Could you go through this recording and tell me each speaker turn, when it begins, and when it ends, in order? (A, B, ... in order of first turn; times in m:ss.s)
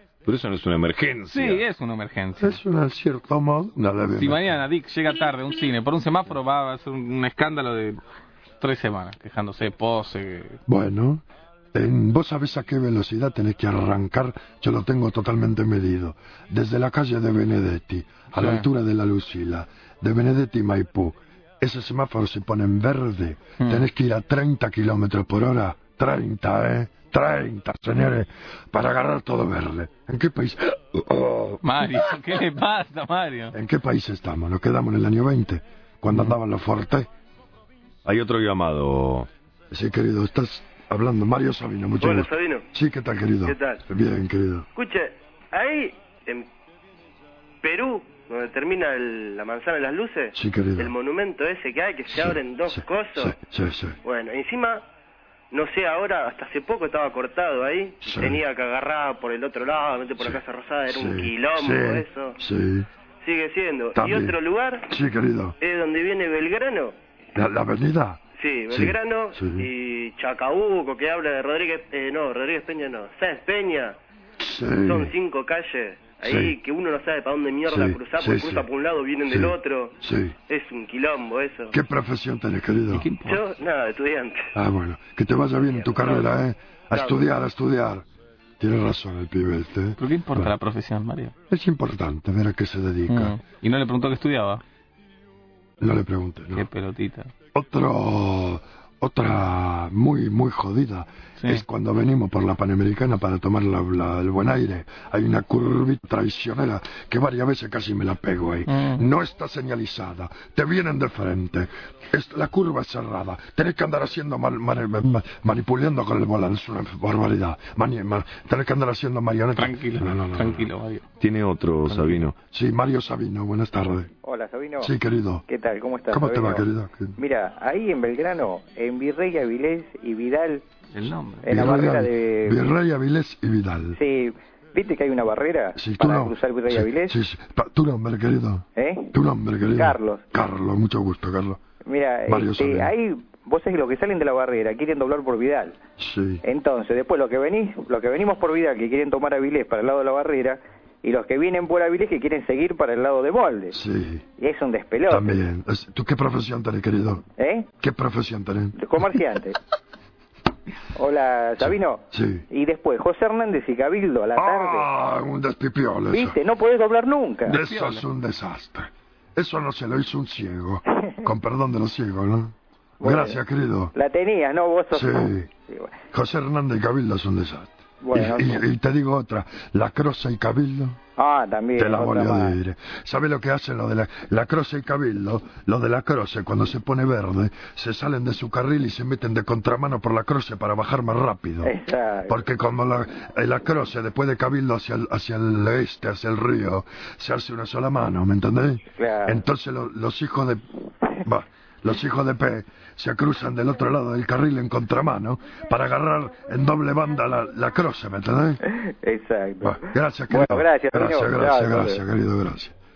0:00.2-0:01.6 A
0:01.3-0:02.6 B
0:02.4-0:04.5 C
0:04.1-0:08.0 B
0:08.6-0:10.6 B
0:10.7-0:32.0 C
0:18.4-0:18.6 B
0:23.6-0:23.9 B
0:31.6-0:33.5 B
0:33.5-0:37.1 C
0:36.1-0:36.4 B
0:38.0-0:39.3 A
0:39.7-0:44.7 C
0:42.0-0:42.6 D
0:43.5-0:43.8 D
0:44.8-0:46.5 D
0:47.6-0:53.4 D
0:50.3-0:50.9 C
0:52.1-0:54.0 C
0:54.0-0:54.8 D
0:55.5-1:02.3 D
0:58.0-0:58.4 C
1:00.9-1:02.9 C
1:03.2-1:04.9 D
1:04.0-1:04.4 C
1:04.9-1:05.6 C
1:05.6-1:06.9 D
1:07.4-1:09.7 C
1:08.4-1:14.0 D
1:14.4-1:15.1 C
1:14.8-1:19.9 D
1:16.3-1:16.6 C
1:17.7-1:18.7 C
1:19.3-1:20.4 C
1:20.5-1:21.7 D
1:21.7-1:23.1 C
1:22.9-1:23.4 B
1:23.2-1:24.5 D
1:24.6-1:28.0 C
1:25.5-1:26.4 D
1:26.9-1:27.3 D
1:28.6-1:30.6 C
1:30.0-1:31.3 B
1:31.5-1:33.4 C
1:33.1-1:34.6 B
1:35.8-1:36.7 C
1:36.6-1:37.3 B
1:37.5-2:00.7 C
1:48.7-1:49.0 B
1:59.6-2:01.1 B
2:01.2-2:02.3 A
2:01.9-2:02.3 B
2:02.4-2:04.1 C
2:04.2-2:04.9 E
2:04.8-2:05.5 C
2:05.5-2:06.7 E
2:06.1-2:07.2 C
2:07.2-2:10.6 E
2:10.9-2:11.5 B
2:11.4-2:12.6 E
2:11.5-2:14.0 C
2:14.0-2:17.2 E
2:15.8-2:21.6 C
2:18.8-2:19.1 E
2:19.6-2:20.3 E
2:21.8-2:25.8 E
2:22.3-2:22.9 C
2:26.0-2:26.4 C
2:26.4-2:33.8 E
2:33.7-2:34.3 C
2:34.4-2:35.4 E
2:35.1-2:37.2 C
2:37.4-2:37.7 E
2:37.8-2:38.8 C
2:38.8-2:39.6 E
2:40.9-2:44.9 E
2:41.6-2:42.5 C
2:44.4-2:46.4 C
2:46.1-2:47.5 E
2:47.5-2:53.9 C
2:47.5-2:48.0 B
2:53.0-2:53.4 E
2:53.9-2:55.9 E
2:54.9-2:55.5 C
2:56.1-3:01.0 C
2:58.0-2:58.6 E
3:01.2-3:02.6 E
3:01.8-3:11.7 C
3:11.6-3:12.4 E
3:12.3-3:20.6 C
3:19.0-3:19.4 E
3:21.2-3:28.6 C
3:28.7-3:32.0 E
3:29.6-3:32.8 C